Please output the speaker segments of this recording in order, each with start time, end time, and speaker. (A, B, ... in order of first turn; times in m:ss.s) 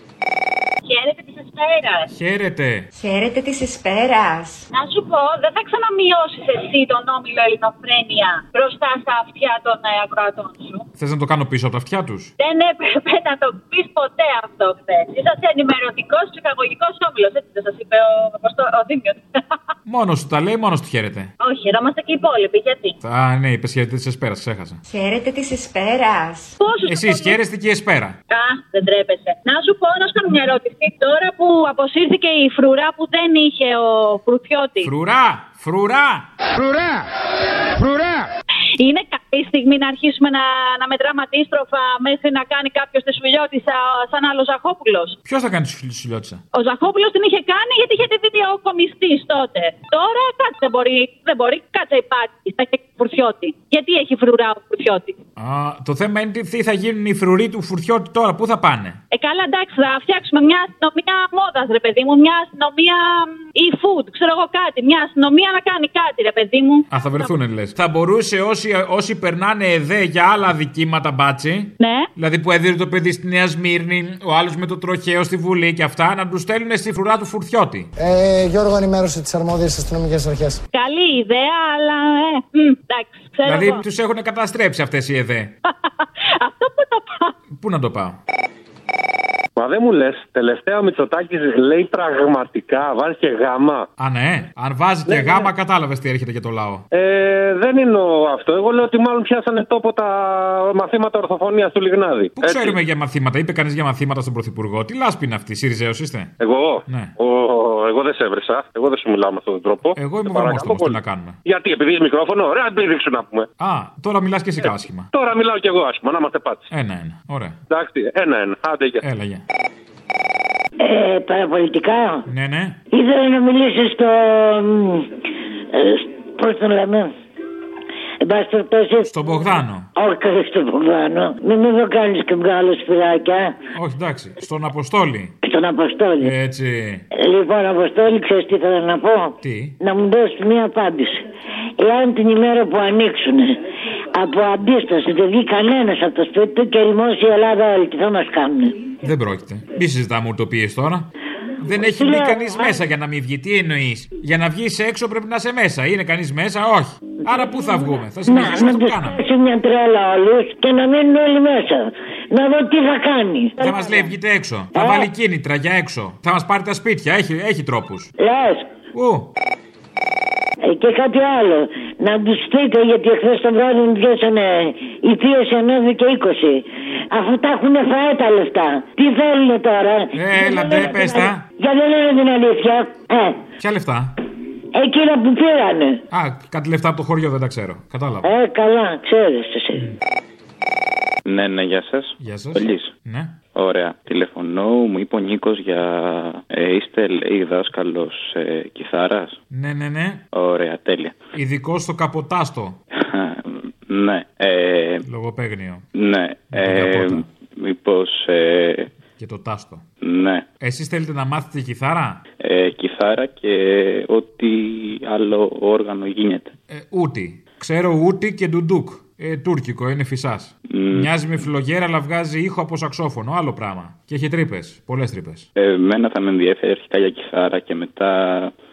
0:00.8-0:02.1 A
0:02.1-0:02.9 B
0:02.9-0:04.6 C
0:04.7-0:10.8 A
0:11.0-0:12.3 B
0:12.4-0:19.2 A
0:19.8-0:21.3 B
0:21.4-0:23.0 A
0:23.0-0:24.8 B
0:24.8-0:26.5 C
0:26.6-0:27.4 A
0:26.9-0:28.2 B
0:28.3-0:34.9 A
0:34.8-0:36.3 B
0:38.8-0:45.2 A
0:45.2-0:46.4 B
0:46.5-0:55.2 A
0:55.4-0:59.0 B
0:59.1-1:07.3 A
1:06.9-1:17.9 B
1:11.8-1:12.1 A
1:18.0-1:20.6 D
1:20.7-1:23.8 A
1:23.4-1:25.5 B
1:25.7-1:27.3 A
1:27.5-1:28.2 B
1:29.6-1:33.8 E
1:34.0-1:36.8 B
1:35.1-1:35.5 E
1:36.9-1:42.8 E
1:42.4-1:46.3 B
1:46.4-1:53.4 E
1:50.0-1:51.4 B
1:53.6-1:55.1 B
1:55.1-1:56.7 E
1:56.7-1:57.5 B
1:57.7-1:59.0 E
1:59.0-1:59.4 B
2:00.8-2:02.3 F
2:02.3-2:02.8 B
2:02.9-2:05.2 F
2:05.7-2:07.1 F
2:08.2-2:09.1 F
2:09.0-2:09.9 B
2:09.9-2:13.5 F
2:13.7-2:15.3 B
2:15.4-2:16.3 F
2:16.2-2:17.0 B
2:17.1-2:21.2 F
2:19.4-2:19.7 B
2:21.8-2:23.6 F
2:24.1-2:28.9 F
2:29.0-2:31.0 B
2:31.6-2:39.2 B
2:31.8-2:32.8 F
2:37.3-2:44.1 F
2:43.6-2:48.1 B
2:44.7-2:45.1 F
2:48.2-2:48.7 F
2:48.9-2:49.3 B
2:50.6-3:03.4 F
3:00.1-3:01.4 B
3:03.6-3:04.1 B
3:04.7-3:06.0 F
3:06.1-3:08.3 B
3:08.2-3:09.8 F
3:11.2-3:12.9 G
3:12.2-3:13.3 B
3:13.5-3:19.4 G
3:19.5-3:20.2 B
3:20.3-3:21.1 G
3:21.3-3:22.8 B
3:23.0-3:25.0 G
3:25.0-3:25.8 B
3:25.9-3:28.9 G
3:26.5-3:27.2 B
3:29.2-3:29.8 B
3:30.0-3:30.4 G
3:30.6-3:32.2 B
3:32.4-3:36.5 G
3:36.7-3:45.5 B
3:40.7-3:41.1 G
3:45.6-3:48.5 G